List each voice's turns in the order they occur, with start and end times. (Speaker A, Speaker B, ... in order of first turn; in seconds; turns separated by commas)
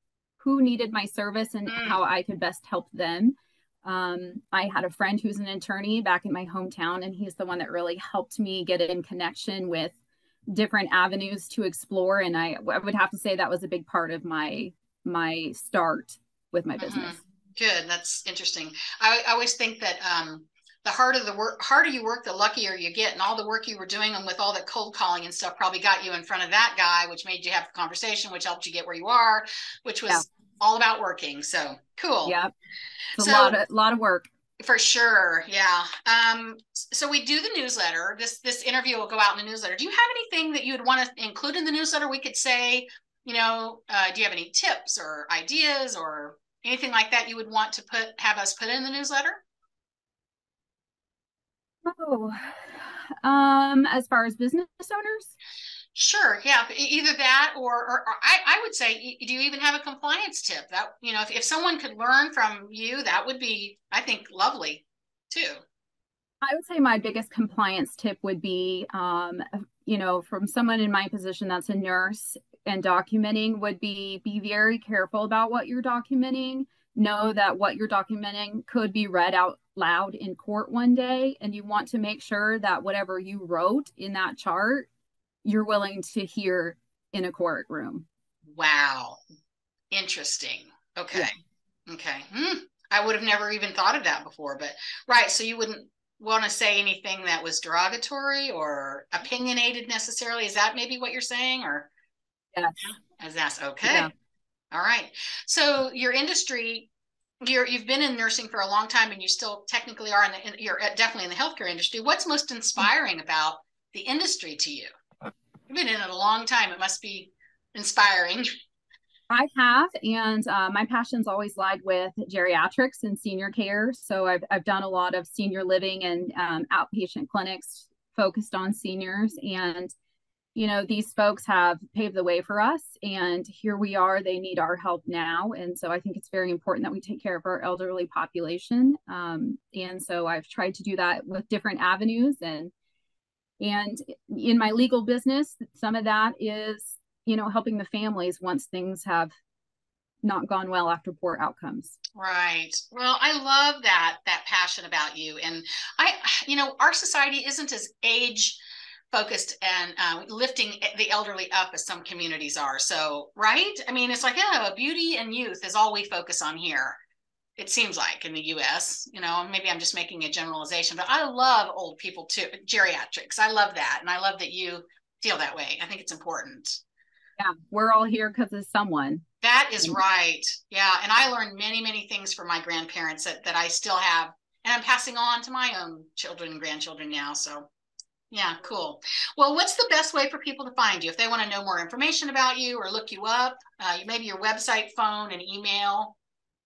Speaker A: 0.4-9.9, Speaker B: 1.7-2.0, Speaker A: 10.5-17.2, Speaker B: 16.8-32.3, Speaker A: 32.2-32.5, Speaker A: 33.1-34.3, Speaker B: 33.2-33.5, Speaker B: 34.6-49.4, Speaker A: 51.8-55.3, Speaker B: 55.9-65.6, Speaker A: 66.4-84.9, Speaker A: 85.4-88.0, Speaker B: 88.5-89.2, Speaker B: 89.9-91.3, Speaker B: 91.9-101.9, Speaker A: 102.5-102.9, Speaker B: 102.8-104.1, Speaker A: 103.8-104.1, Speaker B: 104.7-106.9, Speaker B: 107.4-114.9, Speaker B: 115.7-118.5, Speaker A: 119.3-129.9, Speaker A: 130.5-142.7, Speaker A: 143.6-149.3, Speaker A: 150.2-152.0, Speaker B: 152.2-158.6, Speaker B: 159.1-167.0, Speaker B: 167.6-176.8, Speaker A: 177.4-179.2, Speaker B: 179.4-187.7, Speaker B: 188.3-196.1